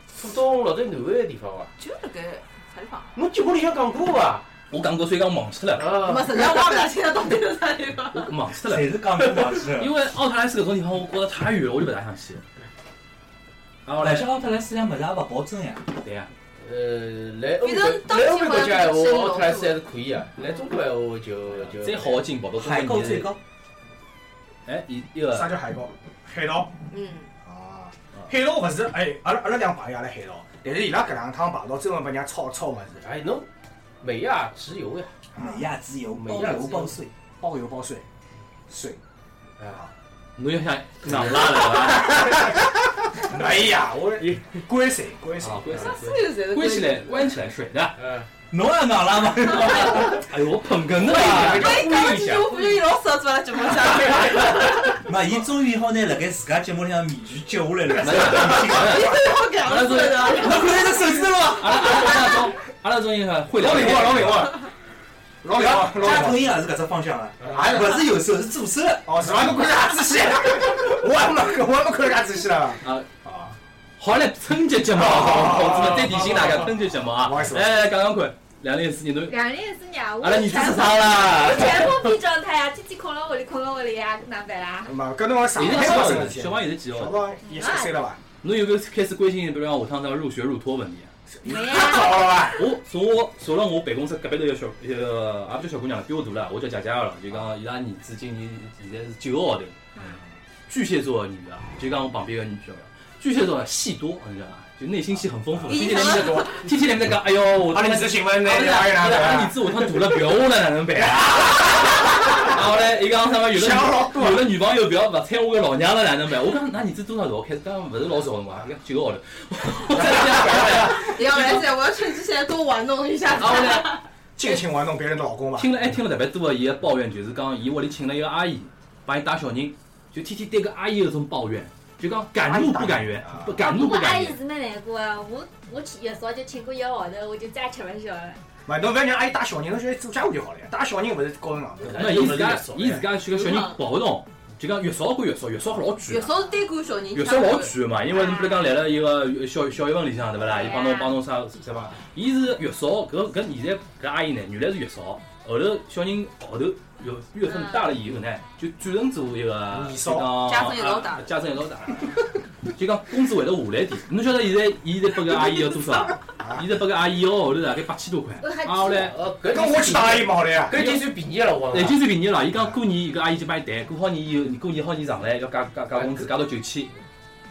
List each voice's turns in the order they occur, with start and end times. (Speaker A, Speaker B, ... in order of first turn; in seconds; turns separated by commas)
Speaker A: 0.1-1.7, Speaker B: 1.8-3.1, Speaker A: 3.1-4.5, Speaker C: 4.7-6.0, Speaker A: 5.8-6.5, Speaker B: 6.0-8.3, Speaker C: 8.1-9.0, Speaker D: 8.7-9.9, Speaker C: 9.6-12.4, Speaker C: 13.8-14.3, Speaker D: 14.0-15.9, Speaker C: 16.0-16.3, Speaker A: 16.6-22.3, Speaker B: 17.6-19.8, Speaker C: 21.7-23.4, Speaker D: 22.6-23.4, Speaker C: 24.7-25.5, Speaker E: 25.3-26.7, Speaker B: 26.9-27.3, Speaker E: 27.4-33.0, Speaker A: 33.0-33.5, Speaker A: 34.0-35.1, Speaker E: 35.3-35.6, Speaker D: 35.4-37.1, Speaker A: 36.1-37.0, Speaker E: 37.4-38.0, Speaker E: 38.7-39.0, Speaker A: 39.6-39.9, Speaker C: 40.4-42.4, Speaker E: 41.9-42.7, Speaker E: 43.2-45.8, Speaker A: 44.2-44.6, Speaker C: 45.4-48.0, Speaker B: 45.7-47.4, Speaker A: 45.8-46.3, Speaker A: 48.0-48.3, Speaker D: 48.5-50.3, Speaker C: 49.5-51.8, Speaker A: 51.0-52.8, Speaker E: 51.1-51.9, Speaker B: 51.4-54.8, Speaker D: 55.0-59.0, Speaker C: 58.0-60.8, Speaker E: 58.1-58.5, Speaker B: 58.7-60.9, Speaker D: 60.4-61.9, Speaker C: 61.6-64.5, Speaker E: 63.5-64.6, Speaker E: 65.4-66.5, Speaker D: 65.5-69.3, Speaker E: 67.4-68.0, Speaker E: 69.1-73.5, Speaker C: 74.0-79.4, Speaker E: 74.9-77.8, Speaker F: 79.3-84.9, Speaker C: 80.2-82.1, Speaker E: 84.9-88.2, Speaker C: 85.5-87.2, Speaker F: 87.5-87.9, Speaker C: 88.4-91.1, Speaker E: 91.4-92.7, Speaker F: 91.5-92.4, Speaker C: 92.5-99.8, Speaker C: 100.7-121.7, Speaker B: 105.7-106.6, Speaker E: 106.0-106.5, Speaker E: 107.6-109.7, Speaker E: 111.0-111.9, Speaker E: 113.5-114.5, Speaker E: 119.9-120.9, Speaker B: 120.7-124.0, Speaker C: 123.4-123.9, Speaker E: 124.4-125.7, Speaker C: 125.6-134.4, Speaker E: 132.4-133.6, Speaker F: 133.6-138.4, Speaker E: 138.7-142.5, Speaker A: 141.8-143.0, Speaker C: 141.9-146.3, Speaker B: 143.3-143.8, Speaker B: 146.1-147.8, Speaker C: 147.1-169.2, Speaker F: 148.1-148.6, Speaker F: 150.7-151.1, Speaker E: 159.7-160.3, Speaker B: 160.3-161.3, Speaker E: 166.4-166.7, Speaker F: 168.4-169.1, Speaker A: 168.9-172.0, Speaker E: 169.5-170.8, Speaker C: 170.7-171.1, Speaker C: 171.7-176.9, Speaker A: 175.9-176.3